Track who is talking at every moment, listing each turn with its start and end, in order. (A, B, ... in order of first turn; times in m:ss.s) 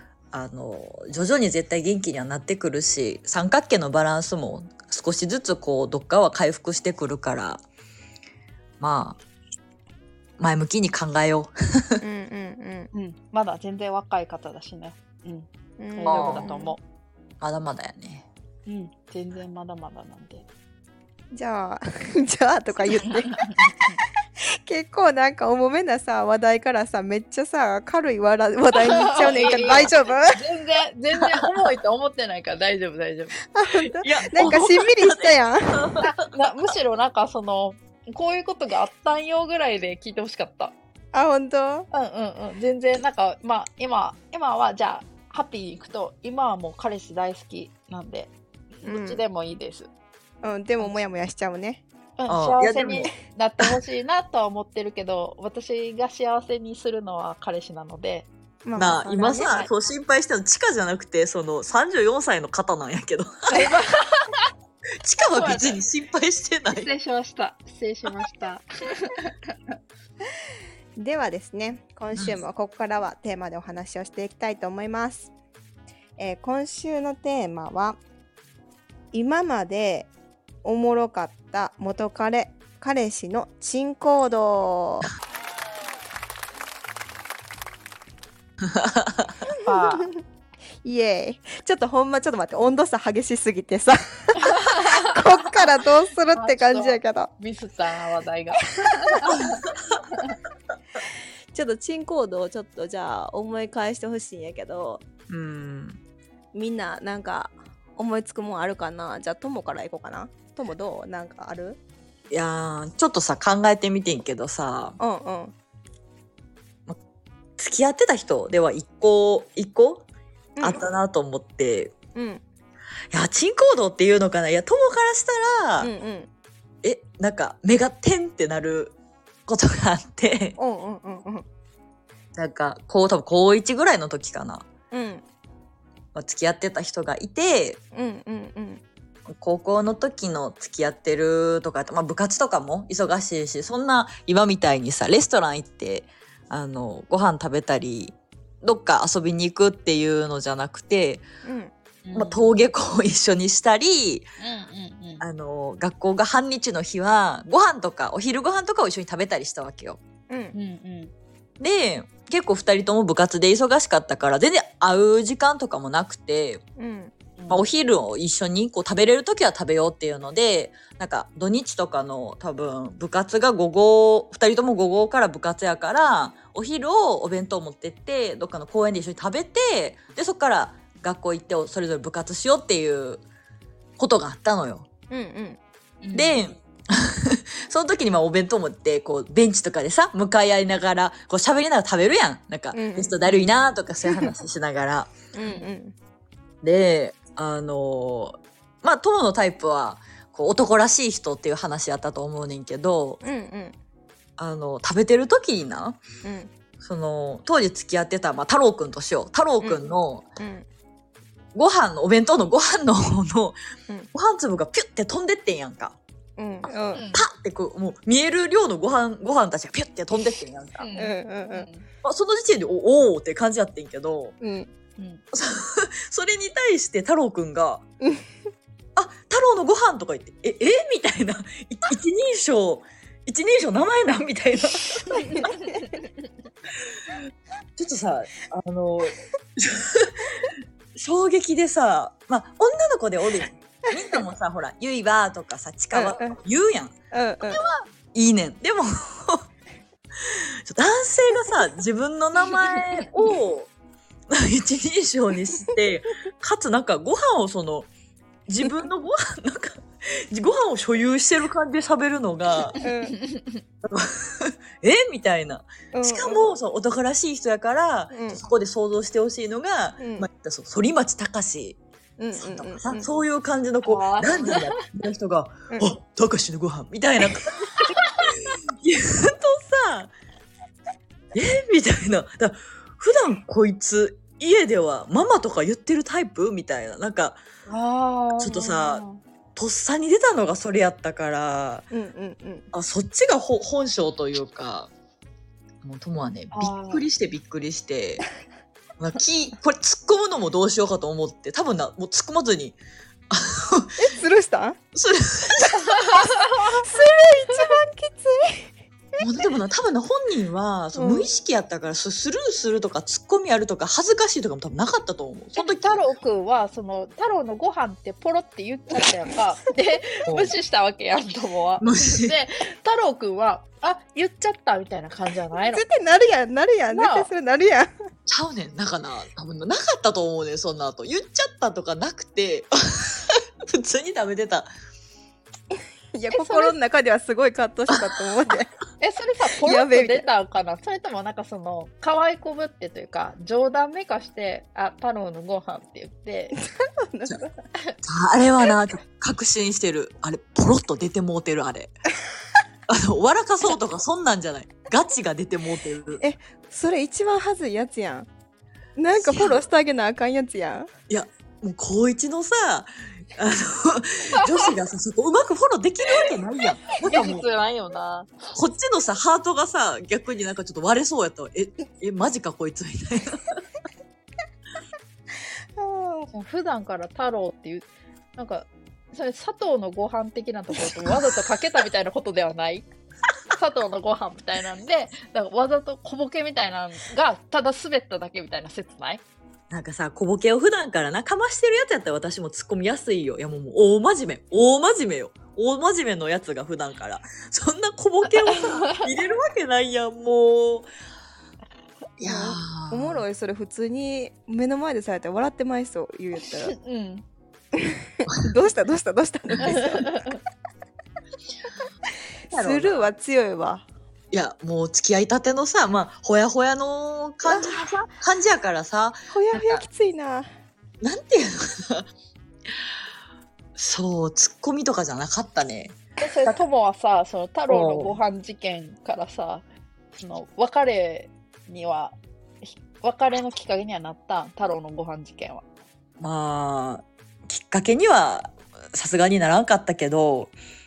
0:00.3-0:07.6 A
0:08.8-0:09.2 A
0:10.4-0:12.0 A
0:12.0-0:12.9 B
0:12.9-0:16.8 C
0:15.8-0:16.8 B
0:16.0-0:16.5 A
0:17.4-0:18.3 A
0:18.7-0:20.5 C
0:21.3-0:23.7 B
0:23.4-0:24.0 C
0:24.4-0:30.4 B
0:28.8-0:33.5 C
0:29.4-0:29.7 A
0:33.5-0:36.0 B
0:34.0-0:36.1 A
0:36.0-0:40.8 C
0:41.1-0:41.9 B
0:41.9-0:49.9 C
0:48.9-0:49.2 B
0:50.4-0:51.8 B
0:52.2-0:58.3 C
0:52.3-0:53.6 A
0:58.6-0:59.6 B
0:58.8-1:03.7 A
0:59.2-0:59.7 C
1:03.5-1:04.5 C
1:05.0-1:06.9 A
1:05.3-1:05.8 C
1:06.7-1:09.3 C
1:11.0-1:15.3 B
1:16.2-1:18.0 B
1:19.1-1:20.1 B
1:20.6-1:25.1 B
1:28.7-1:29.3 A
1:29.5-1:30.2 B
1:29.6-1:30.1 C
1:30.8-1:37.3 B
1:34.5-1:35.1 C
1:36.3-1:39.6 C
1:41.5-1:45.0 B
1:45.3-1:46.0 A
1:46.5-1:51.8 B
1:52.3-1:55.0 A
1:55.0-1:55.6 B
1:57.6-2:00.0 A
2:00.6-2:01.9 A
2:02.2-2:02.4 B
2:03.1-2:05.9 A
2:05.8-2:06.3 B
2:06.8-2:09.0 A
2:09.5-2:10.6 A
2:10.6-2:11.4 B
2:12.4-2:14.7 A
2:14.9-2:15.2 B
2:16.2-2:17.8 A
2:17.9-2:18.8 B
2:19.4-2:31.2 A
2:31.4-2:31.7 B
2:32.0-2:32.4 C
2:32.2-2:34.3 A
2:34.4-2:35.2 C
2:35.2-2:40.0 A
2:40.3-2:40.6 B
2:40.5-2:41.1 C
2:41.6-2:46.6 A
2:46.8-2:47.1 B
2:47.4-2:47.6 C
2:47.5-3:03.2 A
3:04.0-3:04.9 A
3:05.1-3:05.6 B
3:06.0-3:06.4 C
3:06.1-3:15.1 A
3:12.7-3:13.1 B
3:14.0-3:14.3 B
3:15.3-3:16.0 B
3:15.4-3:15.7 C
3:16.6-3:23.2 A
3:23.2-3:23.8 B
3:24.4-3:26.0 A
3:26.2-3:26.5 B
3:26.8-3:30.2 A
3:30.4-3:30.6 B
3:31.6-3:33.6 A
3:34.1-3:36.0 A
3:36.4-3:37.1 B
3:36.9-3:37.3 C
3:37.1-3:40.9 A
3:40.8-3:41.9 C
3:41.0-3:41.7 B
3:42.0-3:44.3 A
3:44.4-3:44.7 B
3:45.3-3:47.8 A
3:48.0-3:48.3 B
3:49.0-3:55.4 A
3:55.1-3:56.0 C
3:55.4-3:55.8 B
3:57.8-4:09.4 A
4:05.9-4:06.4 B
4:07.1-4:07.6 B
4:10.2-4:13.7 A
4:14.3-4:17.9 A
4:18.5-4:22.8 A
4:22.8-4:23.2 B
4:23.0-4:23.6 C
4:23.8-4:31.8 A
4:25.9-4:26.5 B
4:28.1-4:28.4 B
4:30.0-4:30.3 B
4:32.2-4:33.1 B
4:32.4-4:37.7 A
4:33.8-4:34.8 C
4:38.2-4:40.1 A
4:41.3-4:47.4 A
4:47.7-4:49.2 C
4:48.4-4:49.0 A
4:49.6-4:51.9 A
4:51.9-4:52.7 B
4:52.7-4:54.9 A
4:55.8-4:58.3 A
4:56.5-4:57.0 C
4:59.0-5:02.8 A
5:03.3-5:04.0 A
5:04.0-5:04.8 B
5:05.0-5:06.3 A
5:06.1-5:06.8 C
5:06.6-5:08.7 B
5:09.2-5:16.0 A
5:10.9-5:11.3 B
5:15.5-5:25.8 C
5:20.3-5:20.5 A
5:21.8-5:22.4 A
5:25.6-5:27.9 B
5:26.9-5:27.3 C
5:28.3-5:34.7 A
5:36.2-5:38.7 B
5:36.3-5:36.8 C
5:37.9-5:38.2 A
5:39.0-5:46.6 C
5:39.6-5:40.3 B
5:46.6-5:47.5 B
5:48.0-5:52.1 A
5:52.9-5:56.2 A
5:56.2-5:58.3 B
5:59.0-6:00.9 B
5:59.2-5:59.6 A
6:01.1-6:07.5 A
6:07.0-6:08.6 C
6:08.6-6:13.6 A
6:15.8-6:16.3 B
6:16.3-6:22.9 C
6:23.5-6:29.2 C
6:29.7-6:40.9 A
6:38.4-6:39.1 C
6:42.2-6:43.2 A
6:42.2-6:46.8 B
6:46.5-6:47.2 C
6:47.8-6:50.1 B
6:49.5-6:49.8 A
6:49.6-6:50.4 C
6:52.5-6:53.1 A
6:52.5-6:53.9 B
6:54.3-6:59.8 A
6:57.4-6:57.9 B
6:59.3-7:00.5 B
7:01.0-7:02.1 A
7:03.8-7:06.6 A
7:06.2-7:09.6 C
7:07.7-7:08.2 A
7:10.2-7:15.7 C
7:16.2-7:20.5 A